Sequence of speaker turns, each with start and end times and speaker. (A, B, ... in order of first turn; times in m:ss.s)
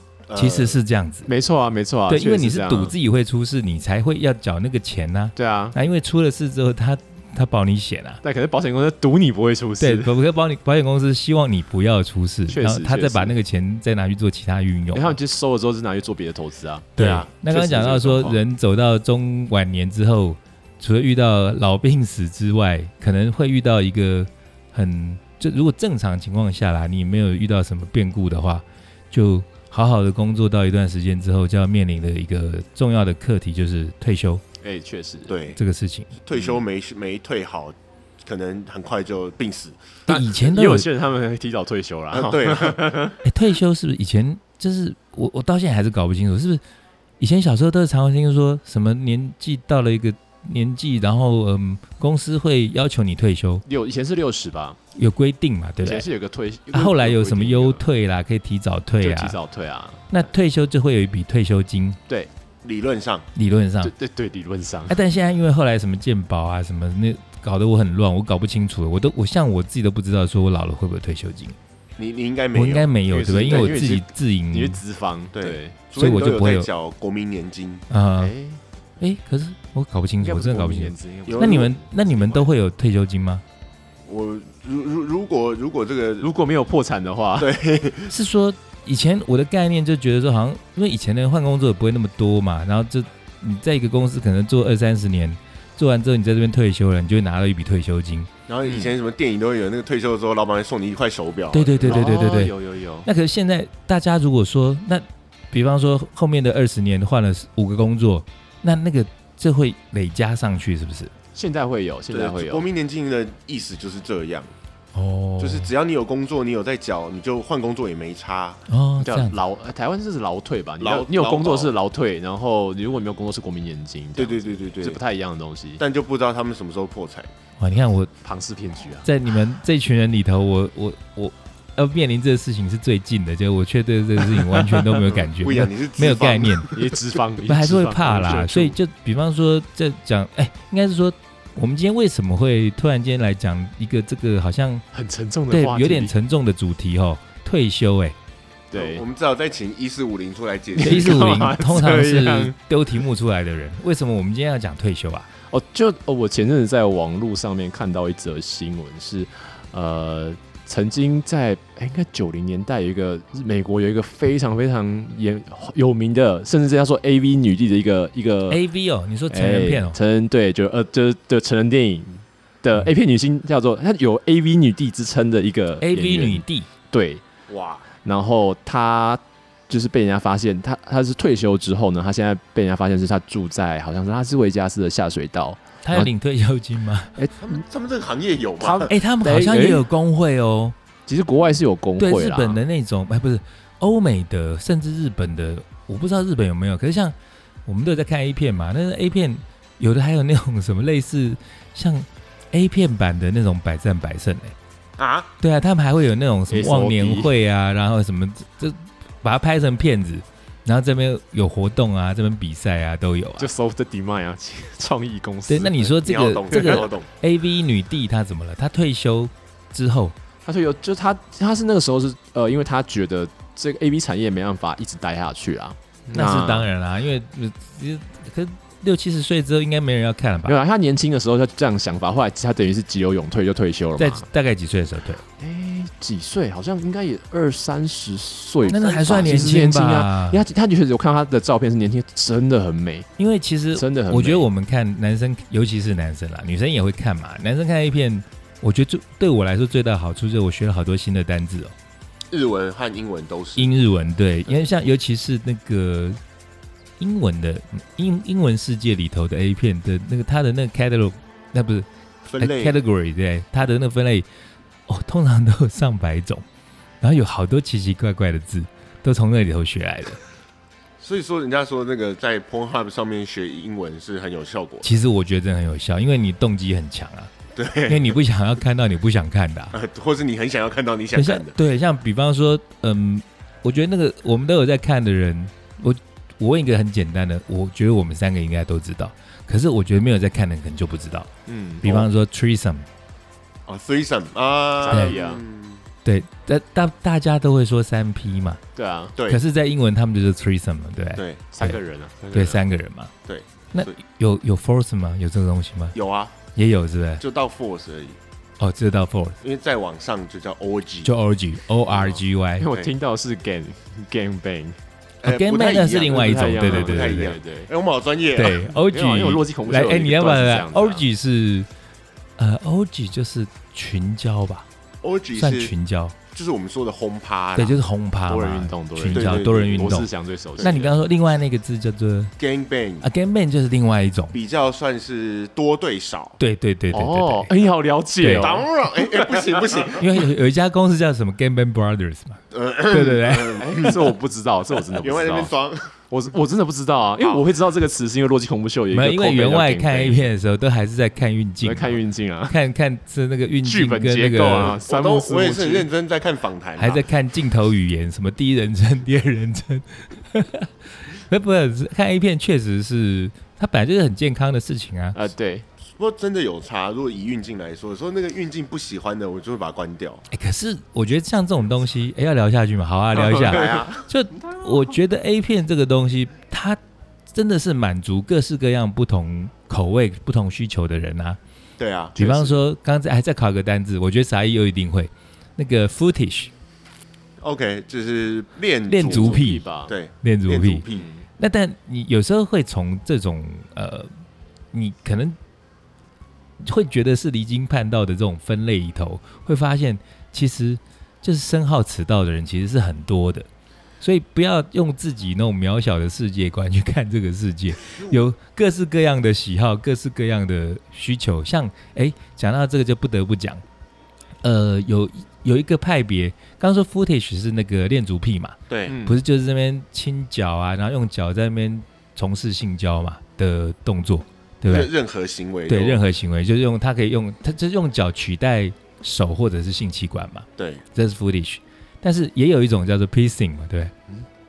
0:00.3-0:00.8 A
0:00.3-0:01.3 B
0:01.2-0:02.9 C
0:02.1-0:08.2 B
0:05.4-0:05.8 C
0:08.2-0:10.1 C
0:09.8-0:15.2 B
0:12.5-0:13.3 C
0:14.9-0:18.4 C
0:17.0-0:17.3 A
0:17.0-0:34.4 B
0:34.6-0:35.3 C
0:35.3-0:35.6 A
0:35.6-0:36.1 B
0:36.2-0:39.8 A
0:40.1-0:40.9 B
0:40.1-0:43.2 C
0:42.1-0:43.1 A
0:43.2-0:46.6 B
0:47.2-0:53.6 B
0:53.6-0:54.8 C
0:54.9-0:56.1 B
0:55.8-0:57.8 C
0:56.7-0:59.4 B
0:59.0-1:00.2 C
1:00.1-1:02.0 B
1:02.6-1:03.3 A
1:03.3-1:03.9 B
1:03.8-1:05.0 C
1:04.9-1:11.6 B
1:12.0-1:13.8 A
1:12.5-1:14.8 B
1:13.1-1:15.8 C
1:15.3-1:17.8 A
1:16.0-1:16.7 B
1:17.9-1:18.3 B
1:18.2-1:18.6 C
1:19.0-1:23.4 B
1:20.2-1:22.5 C
1:21.3-1:21.7 A
1:24.1-1:26.3 A
1:26.2-1:27.5 C
1:27.4-1:28.1 A
1:28.1-1:38.3 B
1:38.5-1:42.4 A
1:38.6-1:38.9 C
1:41.5-1:51.1 B
1:41.8-1:43.1 C
1:51.3-1:52.6 C
1:52.1-1:54.5 A
1:54.9-1:55.7 B
1:55.4-1:58.6 A
1:58.7-1:59.4 B
1:59.0-2:05.8 C
2:00.8-2:01.7 A
2:04.2-2:05.0 A
2:05.8-2:07.3 A
2:07.6-2:08.1 B
2:08.2-2:09.1 C
2:09.0-2:16.7 B
2:14.5-2:14.8 C
2:15.1-2:16.8 A
2:16.7-2:18.8 C
2:17.4-2:24.8 B
2:24.9-2:26.1 C
2:25.5-2:28.2 B
2:28.7-2:29.0 C
2:28.7-2:31.6 A
2:30.8-2:32.5 C
2:30.8-2:35.3 B
2:35.5-2:48.6 C
2:48.5-2:50.0 B
2:49.3-2:57.2 C
2:55.8-2:56.7 B
2:57.5-2:57.9 A
2:58.0-3:06.1 C
3:05.8-3:07.2 B
3:07.4-3:08.9 A
3:08.6-3:09.9 C
3:08.9-3:10.8 B
3:11.1-3:12.6 C
3:12.0-3:17.1 B
3:17.6-3:24.6 B
3:25.0-3:25.3 A
3:25.4-3:33.5 B
3:26.5-3:27.3 C
3:33.4-3:35.9 C
3:35.5-3:40.1 B
3:36.0-3:37.1 A
3:36.5-3:36.9 C
3:40.4-3:46.7 C
3:46.1-3:50.6 B
3:50.4-3:54.2 C
3:54.0-3:55.2 B
3:55.4-4:03.1 C
3:58.7-4:00.4 B
3:58.7-3:59.2 A
4:03.2-4:11.7 B
4:03.7-4:04.5 C
4:12.3-4:13.7 A
4:13.6-4:16.2 B
4:17.0-4:21.9 B
4:22.3-4:22.8 A
4:22.4-4:24.3 B
4:24.9-4:26.4 B
4:27.0-4:30.2 B
4:31.0-4:34.9 A
4:34.8-4:37.3 B
4:37.5-4:38.2 A
4:37.9-4:39.7 B
4:39.7-4:41.6 A
4:41.1-4:51.3 B
4:51.5-4:51.8 C
4:51.8-4:52.9 B
4:51.8-4:52.1 A
4:53.7-4:55.8 A
4:54.8-4:55.4 C
4:54.9-4:55.2 B
4:56.0-4:58.6 B
4:58.7-4:59.1 C
4:59.2-4:59.4 A
4:59.3-5:01.8 B
5:01.1-5:01.4 A
5:01.5-5:02.6 C
5:02.3-5:03.1 B
5:03.2-5:04.0 A
5:03.7-5:05.9 B
5:05.9-5:06.3 A
5:06.5-5:07.2 B
5:07.2-5:08.2 A
5:08.6-5:09.4 B
5:09.4-5:11.1 A
5:11.0-5:12.7 B
5:11.9-5:14.8 C
5:15.2-5:18.7 A
5:15.2-5:17.4 B
5:16.0-5:17.7 C
5:18.4-5:21.7 B
5:18.8-5:21.0 C
5:22.4-5:24.6 B
5:25.0-5:25.7 A
5:25.4-5:26.2 B
5:26.3-5:27.8 A
5:27.6-5:32.3 B
5:28.3-5:30.9 C
5:29.1-5:30.0 A
5:30.6-5:30.9 A
5:32.4-5:33.1 A
5:33.0-5:34.3 B
5:34.3-5:36.4 A
5:36.4-5:37.5 B
5:36.9-5:39.6 C
5:38.2-5:38.6 B
5:38.4-5:40.0 A
5:39.9-5:43.7 B
5:42.5-5:44.1 A
5:43.6-5:45.5 C
5:45.0-5:45.9 A
5:46.1-5:50.3 C
5:47.2-5:47.4 A
5:48.9-5:54.8 B
5:51.6-5:52.6 C
5:53.6-5:55.9 C
5:54.6-5:57.0 A
5:56.8-6:05.2 B
6:05.1-6:05.6 C
6:06.0-6:10.2 A
6:10.3-6:16.8 B
6:13.1-6:13.9 C
6:13.3-6:14.0 A
6:17.3-6:21.4 B
6:21.8-6:22.6 A
6:22.2-6:26.5 B
6:27.4-6:31.1 A
6:28.9-6:29.7 B
6:29.1-6:29.9 C
6:30.2-6:30.8 B
6:30.9-6:31.2 C
6:31.4-6:34.1 B
6:34.7-6:35.4 B
6:36.6-6:43.5 B
6:44.0-6:53.6 B
6:47.9-6:48.1 A
6:54.4-7:04.9 B
6:58.7-6:59.0 A
6:58.9-6:59.2 C
7:04.6-7:06.0 A
7:05.7-7:13.9 B
7:10.6-7:10.8 A